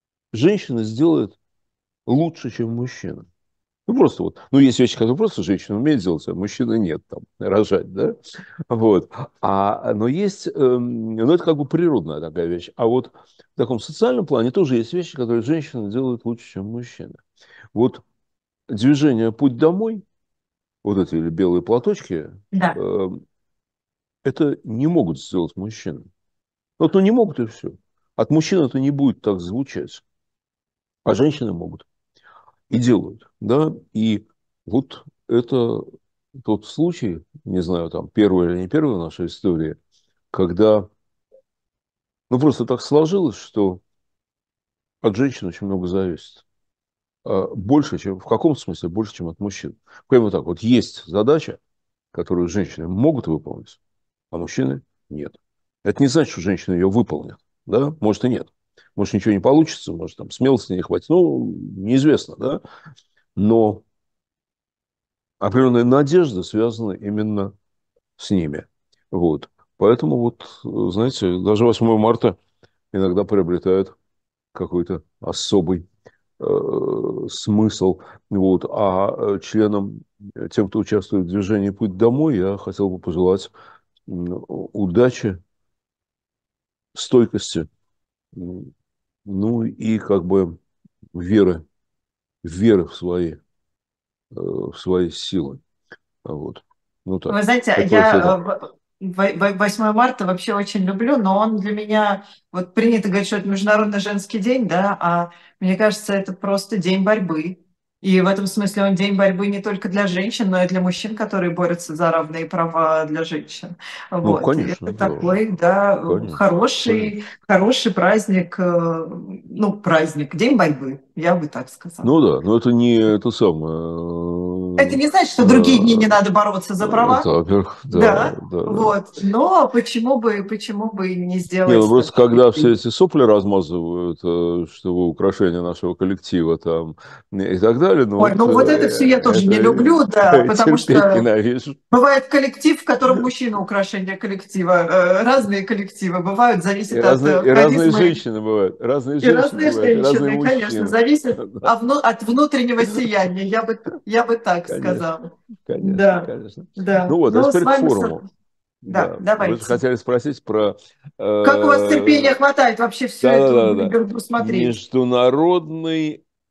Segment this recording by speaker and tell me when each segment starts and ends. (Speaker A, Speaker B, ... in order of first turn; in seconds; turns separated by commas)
Speaker A: 0.3-1.4, Speaker A: 2.0-3.3, Speaker A: 3.9-8.2, Speaker A: 8.7-17.2, Speaker A: 17.7-18.0, Speaker A: 18.7-20.0, Speaker A: 20.8-23.2, Speaker B: 22.5-22.8, Speaker A: 24.2-26.1, Speaker A: 26.8-30.0, Speaker A: 31.0-31.9, Speaker A: 32.7-35.9, Speaker A: 36.4-39.8, Speaker A: 40.3-40.9, Speaker A: 42.3-43.8, Speaker A: 45.0-46.4, Speaker A: 47.2-51.6, Speaker A: 52.1-53.8, Speaker A: 54.3-62.6, Speaker A: 63.4-63.8, Speaker A: 65.4-67.5, Speaker A: 68.2-72.4, Speaker A: 72.9-73.9, Speaker A: 74.5-75.8, Speaker A: 76.4-83.5, Speaker A: 84.1-85.4, Speaker A: 86.9-87.7, Speaker A: 88.3-88.7, Speaker A: 89.2-90.6, Speaker A: 91.1-91.6, Speaker A: 92.4-93.4, Speaker A: 94.3-95.6, Speaker A: 96.2-98.4, Speaker B: 97.3-122.1, Speaker A: 114.2-115.4, Speaker A: 116.0-117.1, Speaker A: 122.0-126.2, Speaker B: 124.8-127.3, Speaker A: 126.8-128.9, Speaker B: 127.9-132.7, Speaker A: 131.7-141.8, Speaker B: 138.2-141.2, Speaker B: 141.9-148.2, Speaker A: 146.9-151.7, Speaker B: 149.2-158.2, Speaker A: 154.7-155.1, Speaker A: 155.6-158.2, Speaker A: 158.8-162.3, Speaker B: 158.8-159.8, Speaker B: 161.4-164.7, Speaker A: 163.2-166.2